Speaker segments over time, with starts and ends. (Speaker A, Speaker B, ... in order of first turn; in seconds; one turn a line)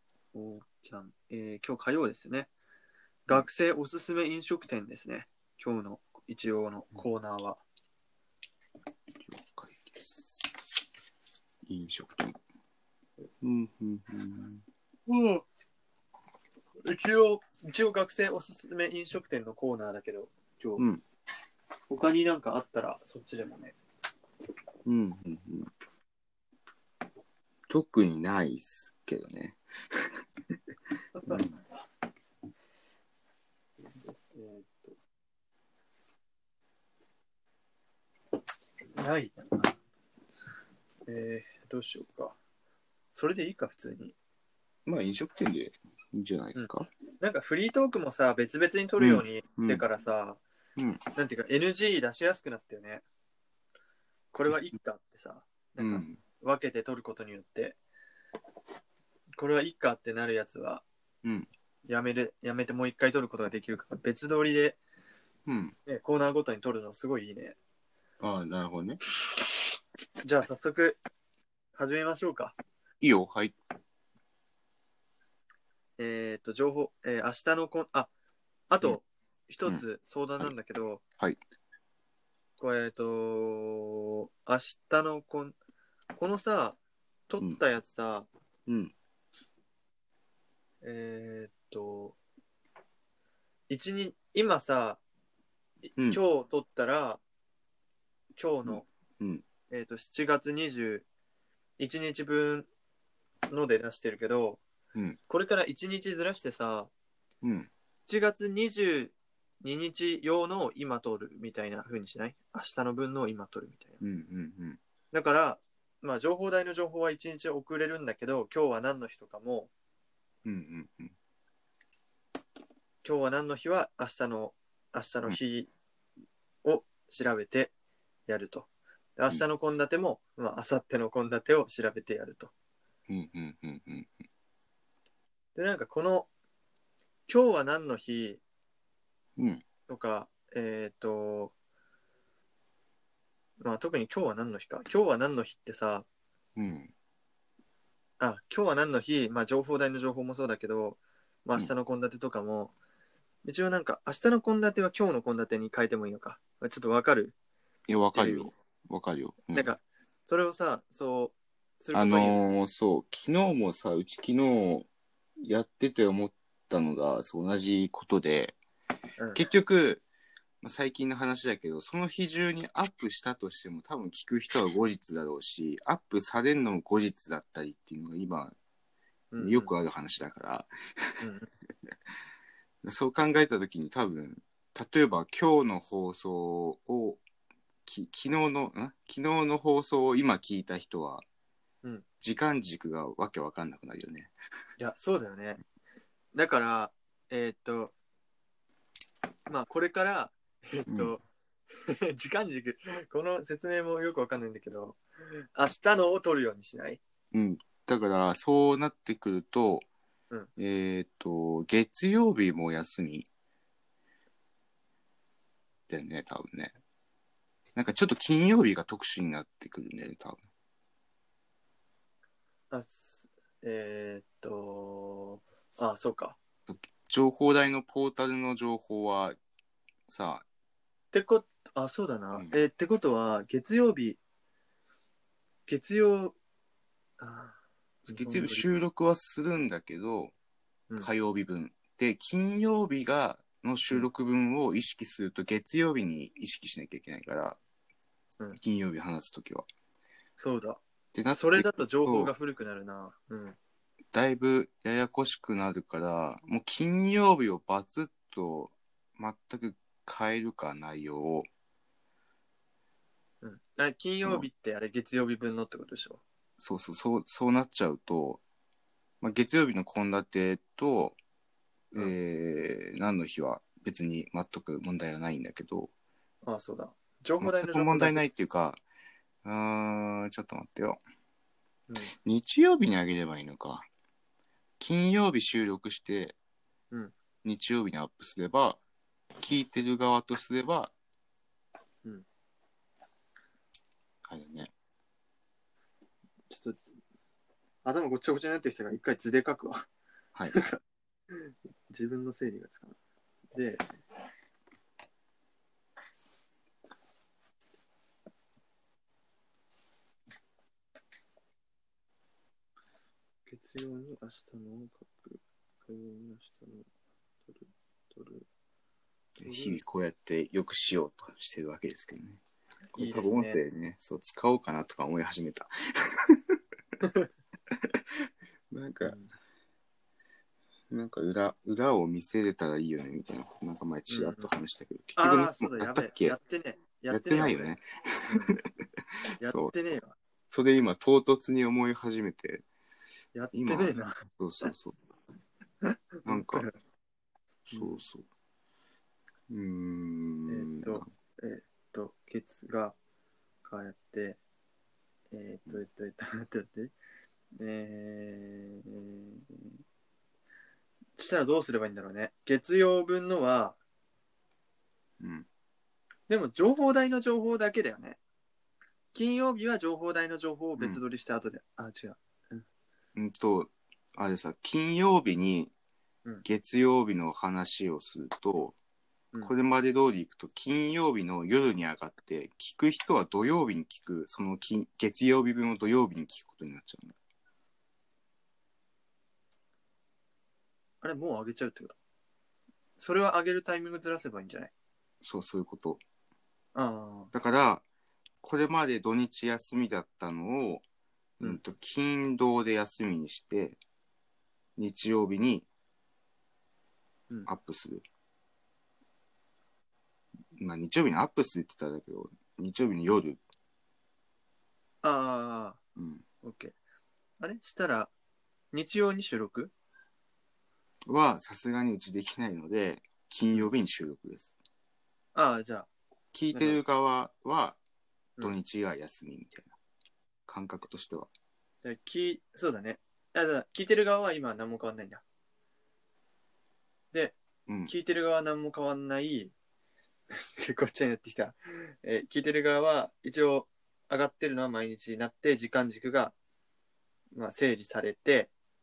Speaker A: 0.3-2.5
Speaker A: 3.3-7.6
Speaker B: 9.2-10.5
Speaker B: 11.7-12.4
Speaker B: 13.4-14.6
Speaker A: 15.1-15.5
Speaker A: 16.9-20.9
Speaker B: 20.8-21.0
Speaker A: 21.9-23.8
Speaker B: 24.9-25.7
Speaker B: 27.7-30.2
Speaker A: 31.2-31.4
Speaker B: 31.2-31.6
Speaker A: 34.0-35.0
Speaker A: 39.0-39.7
Speaker A: 41.1-42.4
Speaker A: 43.1-44.1
Speaker B: 44.9-46.9
Speaker A: 46.5-50.4
Speaker B: 49.0-49.8
Speaker A: 51.1-53.0
Speaker A: 54.3-57.8
Speaker B: 54.5-54.7
Speaker B: 55.8-56.2
Speaker A: 59.4-60.9
Speaker A: 61.9-64.8
Speaker B: 65.5-65.8
Speaker A: 65.9-67.6
Speaker B: 68.2-69.0
Speaker A: 70.2-71.0
Speaker A: 71.8-72.5
Speaker B: 73.0-73.5
Speaker A: 76.0-78.1
Speaker A: 78.7-81.0
Speaker A: 82.6-85.6
Speaker A: 86.2-86.8
Speaker A: 87.3-88.3
Speaker B: 88.7-88.9
Speaker A: 90.8-92.2
Speaker A: 93.7-95.0
Speaker A: 95.8-97.2
Speaker A: 98.4-98.9
Speaker B: 98.7-99.4
Speaker A: 99.7-101.1
Speaker A: 101.8-102.7
Speaker A: 103.5-104.6
Speaker B: 104.9-105.2
Speaker A: 105.3-106.9
Speaker B: 107.4-107.7
Speaker A: 108.1-114.0
Speaker B: 114.0-114.8
Speaker A: 115.1-119.7
Speaker B: 120.5-121.1
Speaker A: 123.0-125.7
Speaker A: 126.6-127.7
Speaker A: 128.3-132.5
Speaker B: 133.1-134.2
Speaker A: 135.6-136.3
Speaker A: 137.3-138.4
Speaker B: 139.4-139.6
Speaker A: 139.9-141.5
Speaker A: 143.6-146.1
Speaker B: 146.6-146.9
Speaker A: 148.2-152.7
Speaker A: 153.4-157.3
Speaker B: 157.9-159.7
Speaker A: 158.1-158.5
Speaker A: 159.5-162.4
Speaker B: 161.9-164.9
Speaker B: 165.4-168.6
Speaker A: 169.2-169.4
Speaker B: 169.3-170.0
Speaker B: 170.6-178.6
Speaker A: 179.3-179.7
Speaker B: 179.4-181.2
Speaker A: 181.2-181.5
Speaker B: 182.8-187.2
Speaker B: 187.9-191.2
Speaker B: 192.2-194.3
Speaker A: 194.8-195.6
Speaker A: 196.3-197.9
Speaker A: 199.5-201.2
Speaker B: 200.9-201.1
Speaker A: 201.8-205.0
Speaker A: 205.6-207.0
Speaker B: 207.3-209.9
Speaker B: 210.6-213.3
Speaker B: 215.9-216.8
Speaker B: 217.8-220.4
Speaker A: 222.7-226.4
Speaker B: 226.7-229.4
Speaker B: 230.1-230.4
Speaker A: 231.1-234.2
Speaker B: 232.3-232.6
Speaker A: 235.7-236.4
Speaker A: 237.2-238.7
Speaker B: 238.1-240.3
Speaker B: 241.0-247.6
Speaker B: 248.6-249.7
Speaker A: 250.4-250.8
Speaker B: 251.1-252.3
Speaker A: 251.3-253.6
Speaker B: 254.1-261.5
Speaker A: 263.4-266.2
Speaker B: 266.6-268.4
Speaker B: 269.2-271.2
Speaker B: 271.9-275.9
Speaker A: 276.4-278.2
Speaker B: 277.4-278.8
Speaker B: 279.4-281.0
Speaker B: 282.2-283.9
Speaker B: 284.8-286.4
Speaker B: 287.4-288.8
Speaker B: 289.4-290.9
Speaker B: 294.2-294.7
Speaker A: 296.5-296.8
Speaker A: 297.8-299.9
Speaker A: 300.5-300.8
Speaker A: 301.3-303.0
Speaker A: 303.5-303.9
Speaker A: 313.5-316.9
Speaker A: 317.5-318.5
Speaker B: 319.4-322.4
Speaker A: 319.4-319.8
Speaker B: 322.9-326.6
Speaker A: 323.0-323.6
Speaker A: 327.0-327.3
Speaker B: 327.7-328.0
Speaker B: 328.7-329.2
Speaker A: 329.0-329.3
Speaker B: 330.9-336.4
Speaker A: 334.1-334.5
Speaker A: 335.2-337.7
Speaker B: 337.1-338.6
Speaker A: 338.3-338.6
Speaker B: 339.2-340.0
Speaker A: 339.4-340.2
Speaker B: 340.5-342.6
Speaker A: 343.4-344.7
Speaker B: 343.5-345.0
Speaker A: 345.8-346.7
Speaker B: 346.2-346.7
Speaker B: 347.7-348.3
Speaker A: 347.7-348.0
Speaker B: 349.5-351.1
Speaker A: 350.5-352.9
Speaker A: 353.6-354.4
Speaker A: 355.3-356.9
Speaker A: 357.6-359.7
Speaker A: 361.2-363.8
Speaker B: 365.2-365.5
Speaker A: 366.3-368.2
Speaker A: 369.1-372.6
Speaker B: 373.2-375.7
Speaker B: 376.4-378.8
Speaker B: 379.4-387.2
Speaker A: 391.0-392.0
Speaker A: 393.0-394.7
Speaker B: 395.2-396.0
Speaker A: 396.8-397.3
Speaker B: 397.3-397.8
Speaker B: 398.4-400.8
Speaker B: 401.4-403.8
Speaker B: 404.8-405.7
Speaker B: 407.5-408.0
Speaker B: 410.6-413.4
Speaker A: 415.0-415.8
Speaker B: 416.0-416.2
Speaker A: 416.4-416.7
Speaker A: 417.4-418.1
Speaker A: 418.7-419.7
Speaker B: 421.1-424.5
Speaker A: 425.4-425.9
Speaker B: 426.3-427.8
Speaker A: 426.5-426.8
Speaker B: 428.4-429.8
Speaker B: 430.5-431.3
Speaker A: 431.8-435.2
Speaker A: 437.1-439.5
Speaker B: 437.7-437.9
Speaker A: 440.3-446.3
Speaker A: 447.3-448.5